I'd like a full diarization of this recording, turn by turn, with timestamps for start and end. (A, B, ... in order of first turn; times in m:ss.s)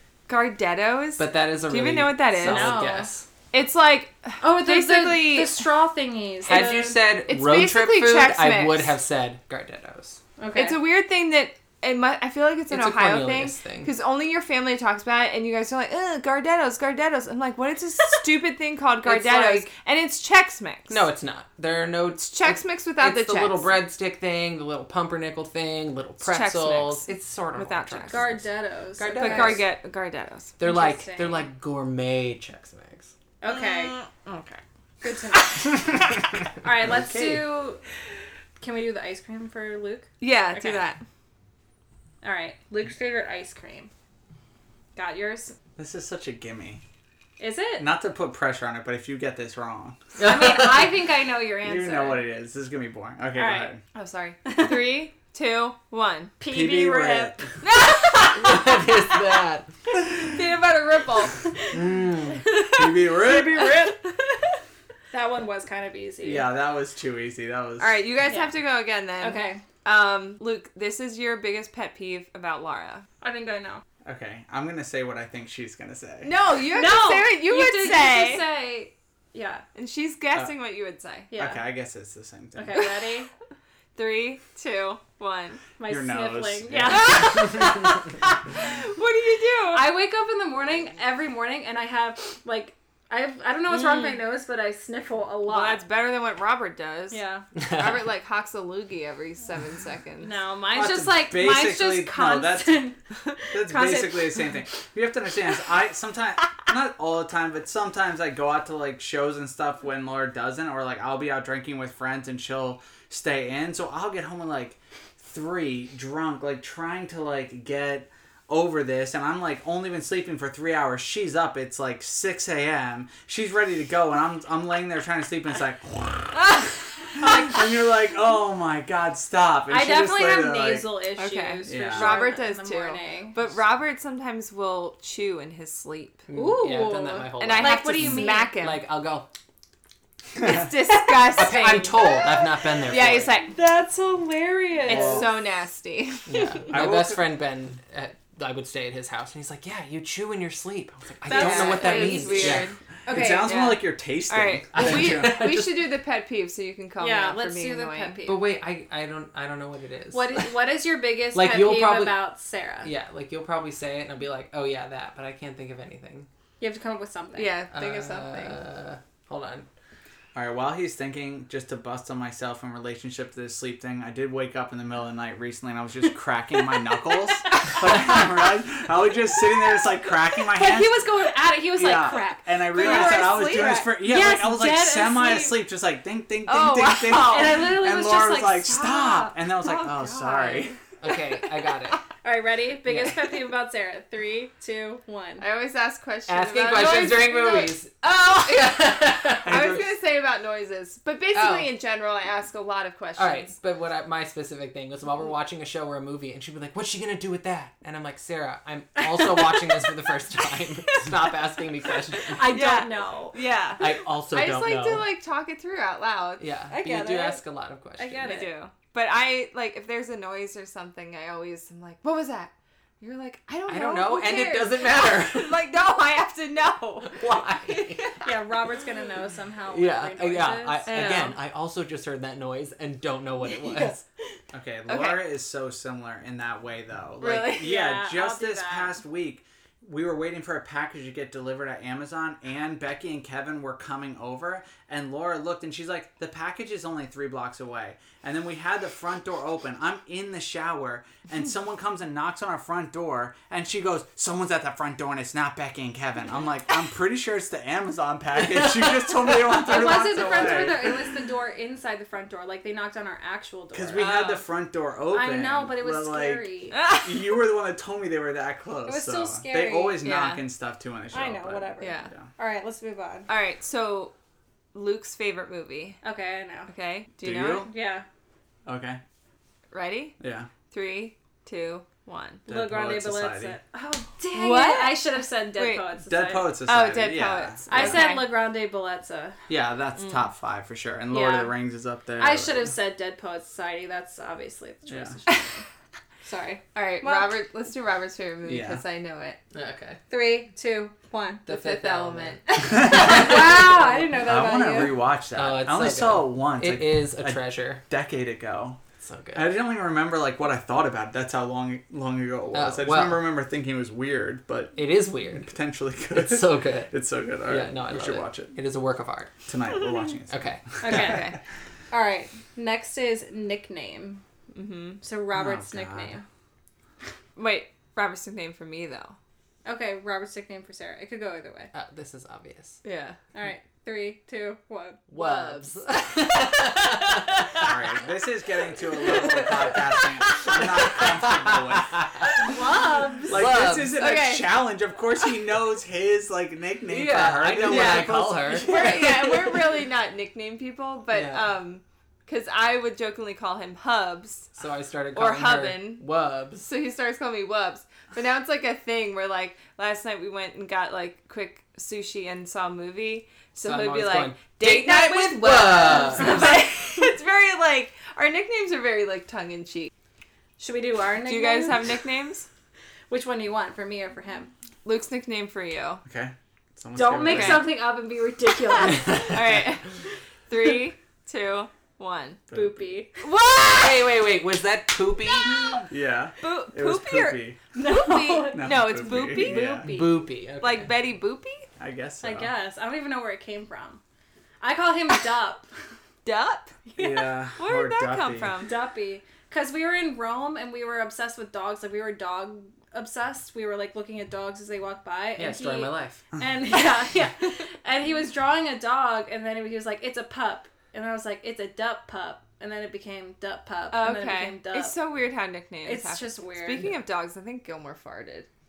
0:00.3-0:02.8 A
0:01.2-0:03.2 B
0:02.4-0:03.1 C
0:03.5-0:05.6 A
0:04.4-0:07.0 C
0:06.4-0:10.2 B
0:06.5-0:08.9 A
0:10.4-0:10.8 C
0:10.5-0:21.0 A
0:12.7-0:13.9 B
0:19.0-0:19.6 B
0:20.9-0:29.6 B
0:22.3-0:23.7 A
0:26.2-0:28.3 A
0:28.1-0:29.6 C
0:29.1-0:30.6 A
0:30.6-0:33.1 B
0:30.6-0:31.4 C
0:33.4-0:34.0 C
0:33.5-0:34.6 A
0:35.0-0:36.0 C
0:36.6-0:37.8 C
0:36.9-0:37.3 D
0:38.6-0:40.9 C
0:40.2-0:41.0 A
0:42.2-0:43.9 C
0:45.0-0:45.6 C
0:45.8-0:46.8 D
0:47.4-0:47.9 C
0:47.8-0:50.1 D
0:50.2-0:50.9 B
0:50.2-0:52.2 C
0:51.6-0:53.8 D
0:53.3-0:53.7 C
0:53.9-0:56.3 A
0:54.4-0:54.8 C
0:56.4-0:57.4 C
0:56.5-0:57.4 D
0:57.6-0:58.8 A
0:58.2-0:59.7 B
1:00.0-1:01.5 A
1:01.7-1:02.5 B
1:02.6-1:04.0 D
1:03.5-1:03.9 C
1:05.1-1:06.5 C
1:06.2-1:08.0 D
1:07.8-1:13.0 A
1:08.3-1:08.6 C
1:09.2-1:09.6 C
1:13.2-1:13.8 C
1:14.0-1:16.3 D
1:16.2-1:18.4 A
1:16.7-1:19.6 C
1:19.7-1:21.3 A
1:21.3-1:21.6 C
1:21.3-1:22.9 D
1:22.5-1:23.3 C
1:23.9-1:25.6 A
1:25.8-1:28.0 C
1:25.9-1:27.3 D
1:26.9-1:28.0 A
1:28.5-1:29.8 A
1:29.7-1:35.8 C
1:33.7-1:34.2 A
1:35.5-1:40.3 A
1:37.1-1:37.4 C
1:40.2-1:44.4 C
1:40.7-1:42.8 D
1:43.5-2:10.9 D
2:09.7-2:13.4 C
2:11.2-2:16.2 A
2:11.6-2:12.2 D
2:16.3-2:19.3 B
2:16.3-2:18.5 C
2:17.4-2:18.8 A
2:20.4-2:23.5 A
2:21.2-2:23.3 B
2:22.0-2:22.3 C
2:23.4-2:25.3 C
2:24.9-2:25.3 D
2:24.9-2:26.7 A
2:26.3-2:32.7 B
2:26.7-2:27.3 D
2:31.3-2:33.6 C
2:31.3-2:32.8 A
2:33.0-2:35.5 D
2:33.4-2:38.2 A
2:34.7-2:35.8 B
2:37.0-2:38.4 C
2:38.2-2:40.5 B
2:40.1-2:42.9 C
2:41.3-2:42.2 B
2:42.8-2:46.3 B
2:46.6-2:47.5 C
2:47.3-2:48.6 A
2:47.7-2:49.7 B
2:50.3-3:01.0 D
3:00.5-3:05.6 C
3:01.7-3:10.8 D
3:02.8-3:03.5 A
3:06.4-3:07.7 A
3:07.3-3:09.4 C
3:09.6-3:10.8 A
3:11.0-3:12.0 B
3:12.2-3:15.4 C
3:12.9-3:13.3 B
3:15.4-3:23.5 A
3:16.3-3:19.8 B
3:19.5-3:19.8 D
3:21.3-3:21.7 B
3:23.2-3:32.5 B
3:32.3-3:33.4 C
3:32.4-3:37.3 A
3:33.8-3:35.1 B
3:36.4-3:38.3 B
3:36.7-3:37.4 C
3:38.0-3:38.5 C
3:38.2-3:48.3 A
3:43.7-3:45.6 B
3:47.1-3:48.1 B
3:48.2-3:50.9 C
3:49.7-3:54.0 B
3:50.9-3:51.4 A
3:54.5-4:21.0 D
3:54.9-3:55.2 A
3:57.2-3:57.7 A
3:57.5-3:59.0 C
4:18.6-4:19.4 B
4:19.6-4:24.3 C
4:20.2-4:20.5 B
4:23.7-4:32.3 D
4:24.0-4:24.4 A
4:25.1-4:26.8 C
4:26.7-4:27.2 A
4:28.8-4:30.0 C
4:30.0-4:30.4 A
4:31.1-4:33.3 C
4:31.8-4:32.1 A
4:33.3-4:34.1 A
4:34.7-4:36.0 A
4:36.0-4:36.7 C
4:36.7-4:37.7 A
4:37.2-4:37.7 D
4:37.6-4:38.0 C
4:38.6-4:39.0 D
4:39.7-4:40.2 A
4:40.2-4:40.5 D
4:40.7-4:42.4 A
4:42.4-4:46.6 C
4:42.5-4:43.6 D
4:44.3-4:45.8 A
4:46.0-4:48.0 D
4:46.6-4:48.3 A
4:47.7-4:49.4 C
4:49.5-4:52.7 D
4:50.0-4:50.2 A
4:51.1-4:51.5 C
4:52.2-4:55.6 C
4:54.9-4:55.1 D
4:56.2-4:57.3 C
4:56.7-4:59.4 A
4:58.4-4:58.8 D
4:59.5-5:00.0 B
5:00.1-5:01.5 C
5:01.4-5:02.4 B
5:01.5-5:03.4 A
5:02.6-5:03.5 D
5:02.7-5:05.0 C
5:04.2-5:08.8 D
5:05.4-5:07.8 B
5:09.0-5:09.5 B
5:09.3-5:14.8 D
5:12.5-5:13.2 B
5:14.8-5:15.5 B
5:15.4-5:18.5 D
5:16.1-5:19.3 B
5:19.5-5:21.2 D
5:20.3-5:20.6 B
5:20.8-5:21.4 C
5:20.8-5:21.4 A
5:21.9-5:24.2 C
5:24.5-5:25.0 A
5:25.0-5:26.2 C
5:25.3-5:26.1 D
5:27.4-5:29.2 A
5:29.6-5:31.7 C
5:31.7-5:32.8 B
5:32.8-5:33.2 A
5:33.3-5:35.1 C
5:35.1-5:37.7 B
5:35.2-5:35.7 A
5:36.7-5:37.7 A
5:37.6-5:42.4 D
5:39.1-5:42.2 B
5:42.3-5:43.4 C
5:43.3-5:48.6 D
5:43.3-5:44.1 B
5:43.9-5:44.6 A
5:46.9-5:49.6 B
5:47.6-5:54.5 A
5:51.1-5:51.4 B
5:54.6-5:56.7 B
5:55.1-5:56.0 A
5:56.6-6:09.9 A
6:03.6-6:06.5 B
6:06.3-6:06.6 C
6:10.6-6:11.9 C
6:11.2-6:12.5 A
6:13.1-6:14.5 C
6:14.8-6:16.0 A
6:16.0-6:17.7 D
6:16.9-6:19.3 C
6:17.2-6:17.7 A
6:19.2-6:19.9 A
6:20.5-6:22.4 A
6:22.5-6:22.8 D
6:22.5-6:23.2 C
6:23.2-6:24.1 A
6:23.6-6:25.8 B
6:25.4-6:25.7 A
6:25.8-6:27.6 D
6:26.4-6:29.9 A
6:27.7-6:28.7 C
6:28.5-6:30.0 D
6:29.4-6:30.1 C
6:29.8-6:30.9 B
6:30.6-6:31.7 A
6:31.8-6:32.5 D
6:32.2-6:34.0 C
6:34.6-6:35.7 C
6:36.2-6:36.8 A
6:36.9-6:37.3 C
6:37.0-6:38.6 D
6:37.6-6:38.7 A
6:38.6-6:55.0 C
6:45.4-6:46.2 B
6:53.9-6:58.5 A
6:55.8-6:56.9 C